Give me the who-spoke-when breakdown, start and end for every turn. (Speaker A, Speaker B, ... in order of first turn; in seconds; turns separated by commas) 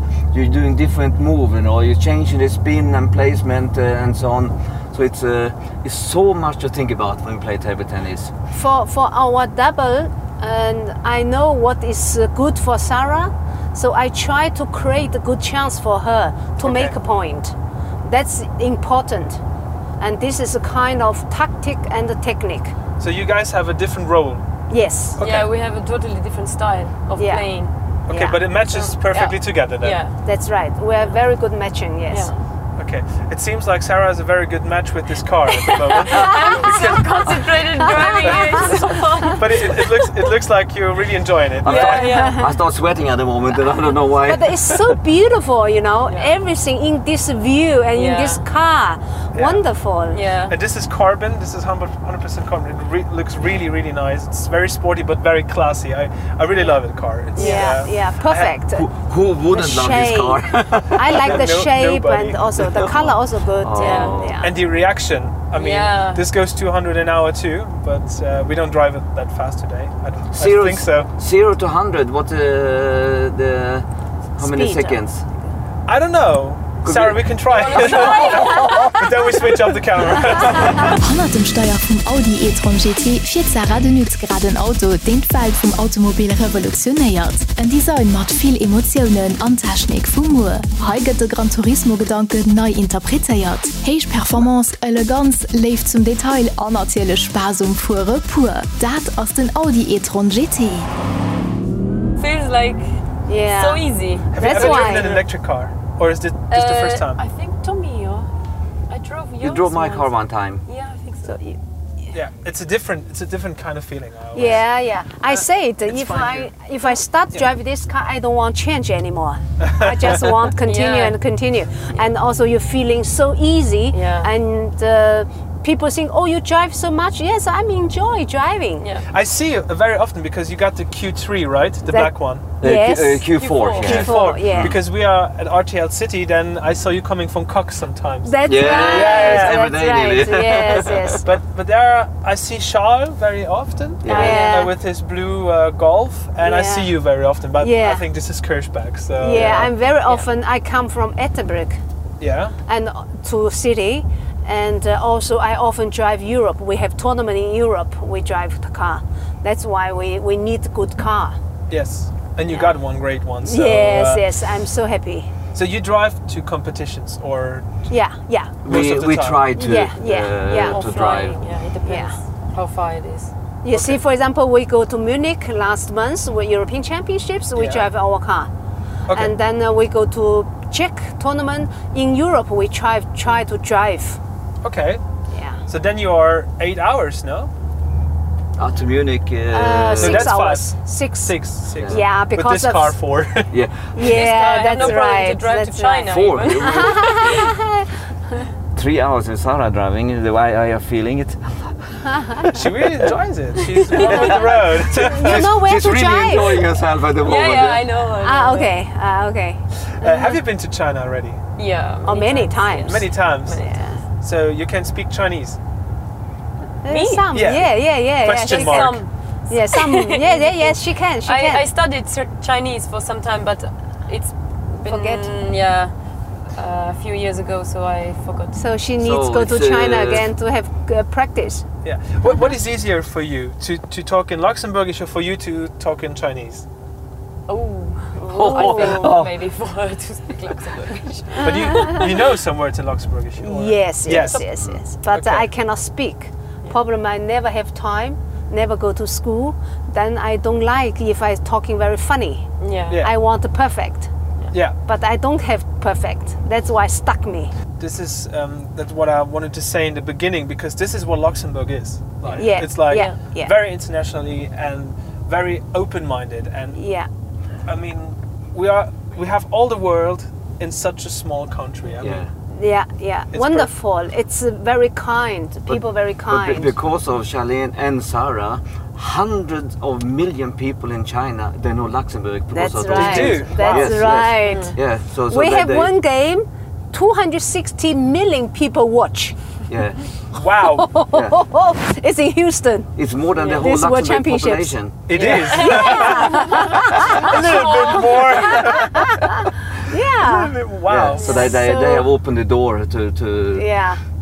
Speaker A: 0.3-8.3, Speaker B: 8.5-19.4, Speaker C: 16.6-16.9, Speaker B: 20.0-22.8, Speaker C: 23.0-24.4, Speaker B: 24.7-25.2, Speaker C: 25.2-25.5, Speaker D: 25.2-27.7, Speaker B: 27.2-27.4, Speaker C: 28.1-30.0, Speaker B: 28.1-28.5, Speaker D: 28.6-30.1, Speaker B: 30.2-32.3, Speaker D: 32.1-32.4, Speaker C: 32.8-37.4, Speaker D: 35.6-40.3, Speaker B: 38.1-38.6, Speaker C: 38.2-42.1, Speaker A: 41.6-45.0, Speaker D: 41.6-42.5, Speaker B: 42.0-42.5, Speaker B: 44.2-50.2, Speaker D: 46.1-46.3, Speaker D: 47.9-48.4, Speaker C: 49.3-49.6, Speaker D: 50.1-50.5, Speaker C: 50.5-58.5, Speaker D: 57.4-57.8, Speaker B: 57.4-58.9, Speaker A: 58.7-61.4, Speaker B: 59.5-64.6, Speaker C: 61.1-62.5, Speaker A: 62.6-64.5, Speaker D: 63.8-64.2, Speaker C: 64.4-71.1, Speaker D: 65.5-66.3, Speaker A: 70.3-75.2, Speaker B: 74.4-75.0, Speaker C: 75.9-81.0, Speaker A: 76.8-78.9, Speaker D: 77.5-79.1, Speaker E: 80.9-100.9, Speaker D: 102.2-105.2, Speaker B: 103.3-105.2, Speaker C: 104.3-107.2, Speaker D: 106.5-108.3, Speaker D: 108.9-110.1, Speaker A: 109.4-110.7, Speaker D: 110.7-111.4, Speaker B: 111.3-111.6, Speaker C: 112.1-114.7, Speaker B: 114.3-128.9, Speaker C: 115.9-116.5, Speaker C: 119.6-120.4, Speaker D: 120.7-121.2, Speaker D: 123.9-124.3, Speaker D: 128.8-129.1, Speaker C: 129.1-132.5, Speaker B: 131.9-133.3, Speaker A: 132.6-134.8, Speaker D: 133.3-134.2, Speaker C: 133.8-139.7, Speaker B: 133.8-134.8, Speaker B: 138.2-141.3, Speaker A: 138.5-141.2, Speaker C: 141.2-149.7, Speaker A: 144.0-144.4, Speaker D: 144.1-144.7, Speaker B: 144.1-144.8, Speaker B: 146.4-146.9, Speaker B: 147.6-148.1, Speaker B: 149.2-151.8, Speaker C: 152.2-152.6, Speaker B: 152.7-161.4, Speaker C: 161.7-164.2, Speaker B: 163.4-165.3, Speaker C: 165.5-167.9, Speaker B: 167.9-168.6, Speaker A: 168.7-171.4, Speaker C: 168.7-169.5, Speaker B: 169.6-170.8, Speaker D: 170.5-173.3, Speaker B: 171.8-172.1, Speaker B: 173.6-178.5, Speaker C: 173.7-174.0, Speaker C: 177.6-177.9, Speaker C: 179.1-179.3, Speaker B: 179.1-184.2, Speaker C: 184.6-185.0, Speaker B: 185.3-185.6, Speaker C: 185.7-187.5, Speaker A: 188.6-190.3, Speaker B: 189.5-193.0, Speaker C: 190.0-193.5, Speaker A: 191.7-192.0, Speaker A: 193.5-194.2, Speaker B: 193.9-197.9, Speaker D: 194.0-197.5, Speaker A: 196.1-197.3, Speaker A: 198.8-203.1, Speaker C: 202.5-205.5, Speaker A: 204.0-204.3, Speaker D: 204.0-204.4, Speaker B: 204.8-206.7, Speaker A: 204.9-207.9, Speaker D: 207.2-208.7, Speaker B: 208.2-210.4, Speaker C: 210.0-211.4, Speaker D: 211.6-213.8, Speaker B: 212.1-214.0, Speaker C: 212.9-213.6, Speaker C: 214.2-215.6, Speaker B: 216.8-221.6, Speaker D: 216.9-217.3, Speaker C: 217.3-219.0, Speaker D: 218.3-225.9, Speaker B: 224.8-225.3, Speaker D: 226.5-228.6, Speaker B: 228.5-231.6, Speaker A: 229.0-230.3, Speaker C: 231.8-236.7, Speaker D: 237.5-242.3, Speaker B: 238.2-239.2, Speaker A: 238.3-239.4, Speaker C: 241.4-244.5, Speaker B: 241.4-242.0, Speaker B: 243.4-254.1, Speaker D: 244.1-244.5, Speaker C: 245.1-245.5, Speaker D: 252.6-253.0, Speaker B: 254.8-257.5, Speaker C: 257.8-266.8, Speaker D: 262.2-263.2, Speaker B: 262.4-263.6, Speaker B: 266.8-267.1, Speaker C: 267.7-272.2, Speaker A: 272.0-272.3, Speaker B: 272.5-276.7, Speaker C: 273.3-273.7, Speaker A: 275.7-285.9, Speaker B: 282.5-284.8, Speaker C: 282.9-284.0, Speaker D: 284.5-284.8, Speaker B: 285.3-289.4, Speaker A: 289.7-290.0, Speaker C: 290.3-290.9, Speaker B: 290.5-292.9, Speaker A: 293.0-295.0, Speaker D: 293.4-293.7, Speaker B: 293.6-300.6, Speaker C: 295.1-296.4, Speaker D: 295.1-298.8, Speaker C: 297.0-299.1, Speaker C: 300.2-301.4, Speaker A: 300.8-303.7, Speaker B: 301.2-302.1, Speaker B: 303.5-304.0